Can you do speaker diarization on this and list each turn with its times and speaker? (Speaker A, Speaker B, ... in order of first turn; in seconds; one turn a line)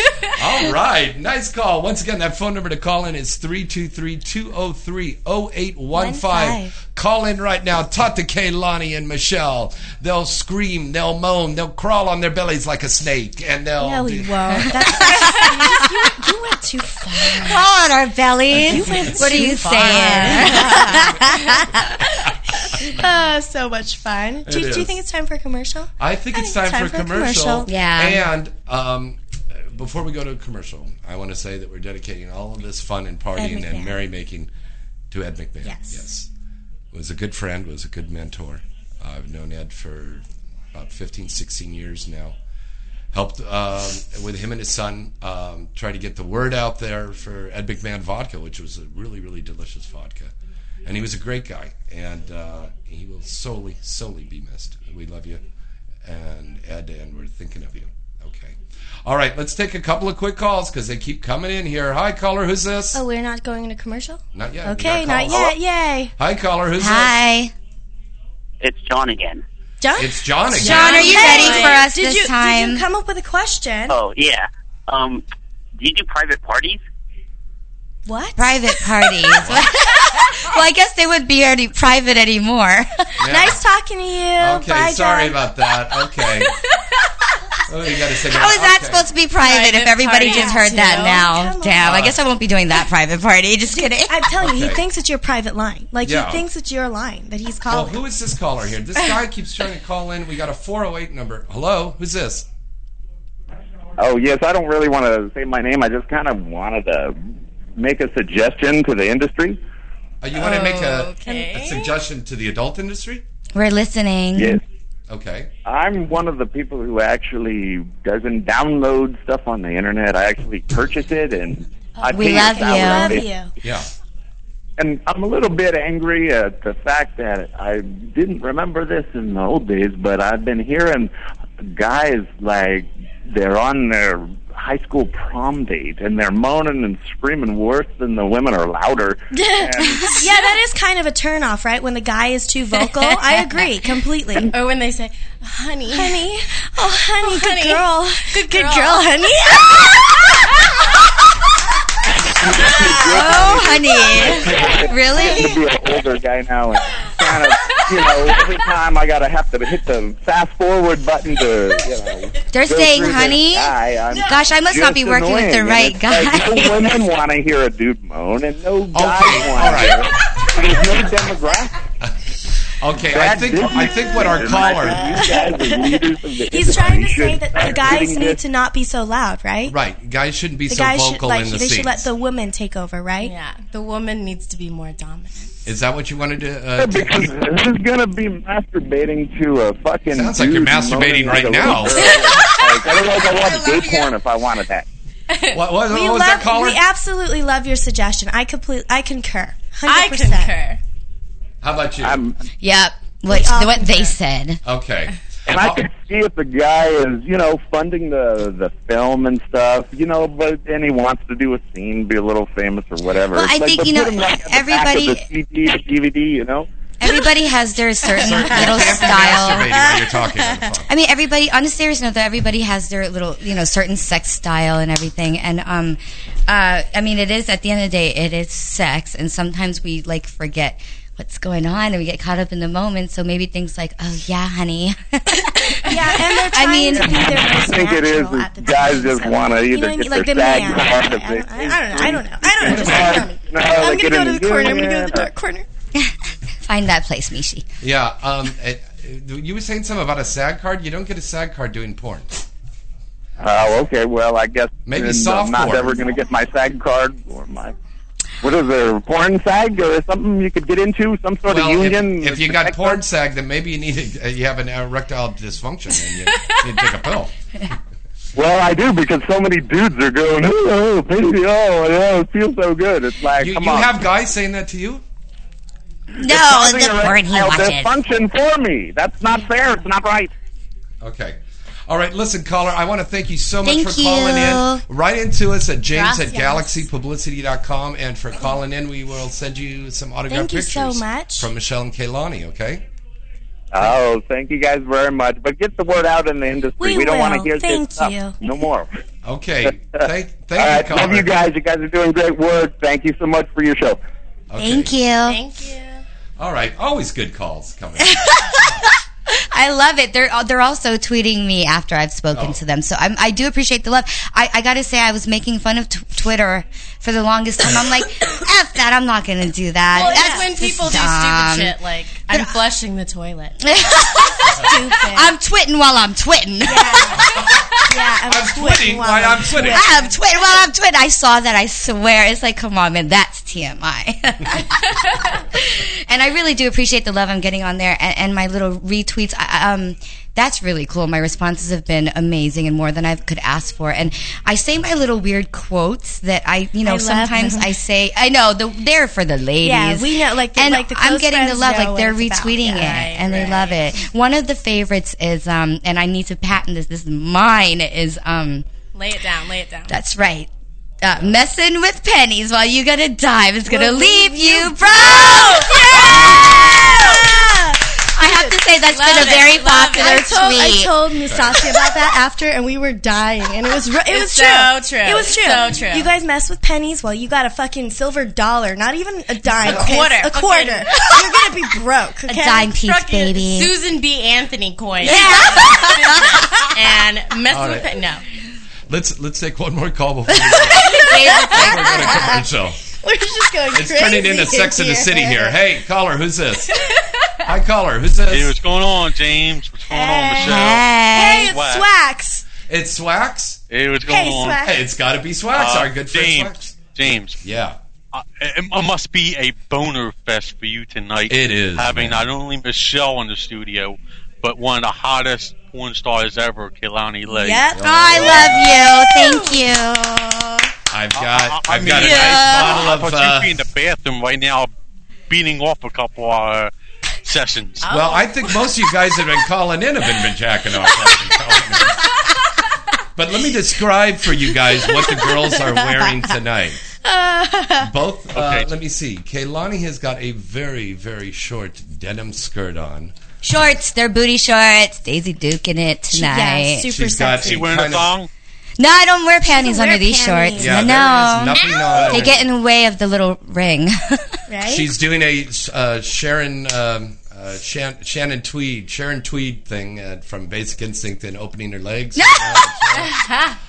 Speaker A: 0.3-15.1
Speaker B: 5.9-6.7
Speaker B: 13.8-17.6
Speaker C: 15.0-15.5
Speaker C: 17.4-21.6
Speaker B: 18.6-22.0
Speaker D: 19.2-21.1
Speaker B: 22.6-27.7
Speaker A: 24.4-25.0
Speaker A: 26.0-34.5
Speaker C: 27.7-28.2
Speaker B: 33.4-34.0
Speaker A: 35.1-36.3
Speaker B: 35.6-36.0
Speaker A: 36.9-42.4
Speaker A: 43.1-50.3
Speaker A: 50.9-55.4
Speaker A: 56.0-63.0
Speaker B: 62.9-66.1
Speaker A: 64.3-65.5
Speaker A: 66.2-67.2
Speaker C: 66.8-67.5
Speaker E: 68.6-69.4
Speaker B: 69.8-74.0
Speaker A: 70.0-71.3
Speaker D: 70.6-71.9
Speaker C: 70.6-72.8
Speaker E: 73.9-75.2
Speaker E: 75.8-76.8
Speaker B: 78.1-78.6
Speaker C: 78.4-82.9
Speaker A: 79.4-79.7
Speaker A: 83.2-83.6
Speaker B: 83.3-85.4
Speaker A: 84.4-86.5
Speaker A: 87.7-89.1
Speaker C: 88.3-94.2
Speaker D: 89.4-91.3
Speaker B: 90.2-92.1
Speaker A: 91.8-92.2
Speaker B: 93.8-98.0
Speaker A: 94.4-94.8
Speaker A: 96.0-96.5
Speaker A: 97.7-102.5
Speaker F: 104.0-107.2
Speaker F: 107.8-109.6
Speaker A: 110.2-113.2
Speaker D: 110.3-112.0
Speaker C: 113.5-114.6
Speaker F: 114.3-114.6
Speaker A: 115.1-115.5
Speaker F: 115.7-123.3
Speaker B: 122.0-123.5
Speaker C: 122.1-123.2
Speaker A: 123.6-123.9
Speaker F: 124.8-139.2
Speaker B: 139.3-144.5
Speaker D: 140.0-140.4
Speaker D: 142.9-143.2
Speaker D: 144.5-146.3
Speaker B: 145.9-150.3
Speaker D: 147.2-149.1
Speaker F: 152.2-171.8
Speaker C: 152.9-155.6
Speaker D: 157.0-158.6
Speaker C: 162.5-166.9
Speaker A: 168.9-170.1
Speaker A: 172.8-175.2
Speaker F: 173.1-178.4
Speaker B: 175.2-176.0
Speaker B: 176.5-179.8
Speaker A: 179.7-182.1
Speaker B: 180.7-183.3
Speaker D: 183.2-185.5
Speaker A: 185.7-187.3
Speaker F: 186.8-194.9
Speaker A: 190.1-192.3
Speaker D: 191.8-194.1
Speaker D: 195.3-195.6
Speaker A: 195.5-196.8
Speaker B: 195.9-200.6
Speaker D: 199.9-200.8
Speaker A: 201.6-202.2
Speaker F: 202.0-202.4
Speaker C: 202.6-204.6
Speaker B: 203.3-204.1
Speaker A: 204.6-205.8
Speaker F: 205.5-216.7
Speaker C: 213.3-215.2
Speaker C: 217.0-219.8
Speaker A: 218.2-220.9
Speaker D: 218.3-218.7
Speaker C: 220.9-237.3
Speaker B: 235.8-245.7
Speaker F: 236.9-245.3
Speaker C: 246.6-247.7
Speaker A: 247.8-252.4
Speaker F: 253.4-257.7
Speaker A: 254.9-256.0
Speaker F: 258.4-263.0
Speaker A: 261.5-267.3
Speaker F: 268.4-274.0
Speaker A: 273.4-275.0
Speaker C: 276.2-277.9
Speaker F: 276.2-280.3
Speaker A: 281.0-292.8
Speaker C: 283.6-284.8
Speaker D: 285.9-286.7
Speaker B: 290.3-291.5
Speaker F: 293.7-298.9
Speaker B: 296.8-298.4
Speaker A: 299.2-301.3
Speaker F: 300.6-304.0
Speaker A: 304.5-304.9
Speaker C: 304.6-305.4
Speaker D: 305.2-306.0
Speaker A: 306.4-308.7
Speaker C: 308.2-308.6
Speaker C: 309.3-321.8
Speaker A: 312.3-312.6
Speaker D: 319.9-325.1
Speaker B: 320.0-320.4
Speaker C: 323.6-327.2
Speaker B: 324.6-325.3
Speaker B: 326.6-330.2
Speaker A: 327.2-327.5
Speaker A: 328.3-329.9
Speaker C: 329.7-334.9
Speaker C: 335.5-358.6
Speaker B: 346.8-347.7
Speaker B: 349.6-353.0
Speaker D: 352.7-353.8
Speaker D: 358.9-359.9
Speaker C: 359.9-360.5
Speaker C: 361.0-367.3
Speaker B: 363.7-368.5
Speaker D: 365.0-367.2
Speaker C: 368.1-370.9
Speaker D: 368.9-370.5
Speaker B: 370.0-382.7
Speaker A: 371.2-371.6
Speaker D: 374.1-376.1
Speaker D: 379.6-381.1
Speaker A: 379.6-379.9
Speaker D: 382.3-388.2
Speaker C: 382.3-383.7
Speaker B: 385.0-385.9
Speaker C: 385.0-385.9
Speaker A: 387.5-387.9
Speaker A: 388.9-392.8
Speaker B: 390.8-392.4
Speaker C: 390.9-392.1
Speaker B: 393.0-395.6
Speaker A: 393.7-396.8
Speaker A: 397.4-398.6
Speaker G: 398.3-401.9
Speaker B: 399.9-402.5
Speaker C: 400.4-401.5
Speaker A: 402.7-403.6
Speaker G: 403.7-404.7
Speaker B: 404.1-404.8
Speaker A: 404.6-406.8
Speaker G: 405.5-407.4
Speaker A: 407.4-407.8
Speaker G: 408.1-417.7
Speaker A: 411.3-412.3
Speaker B: 417.3-418.7
Speaker A: 417.7-418.8
Speaker C: 417.8-420.7
Speaker D: 418.9-419.5
Speaker A: 420.9-423.6
Speaker G: 421.1-424.7
Speaker C: 422.0-422.9
Speaker G: 425.3-426.7
Speaker G: 427.2-427.9
Speaker D: 427.8-428.6
Speaker A: 427.9-432.1
Speaker A: 433.2-436.8
Speaker B: 437.0-437.9
Speaker A: 437.8-443.1
Speaker G: 438.3-438.7
Speaker C: 443.4-446.9
Speaker B: 446.1-448.0
Speaker A: 446.9-448.1
Speaker G: 447.4-448.3
Speaker C: 448.8-454.4
Speaker B: 449.5-451.1
Speaker A: 450.6-452.5
Speaker B: 454.5-454.9
Speaker A: 454.6-463.1
Speaker C: 462.2-462.7
Speaker D: 463.2-463.5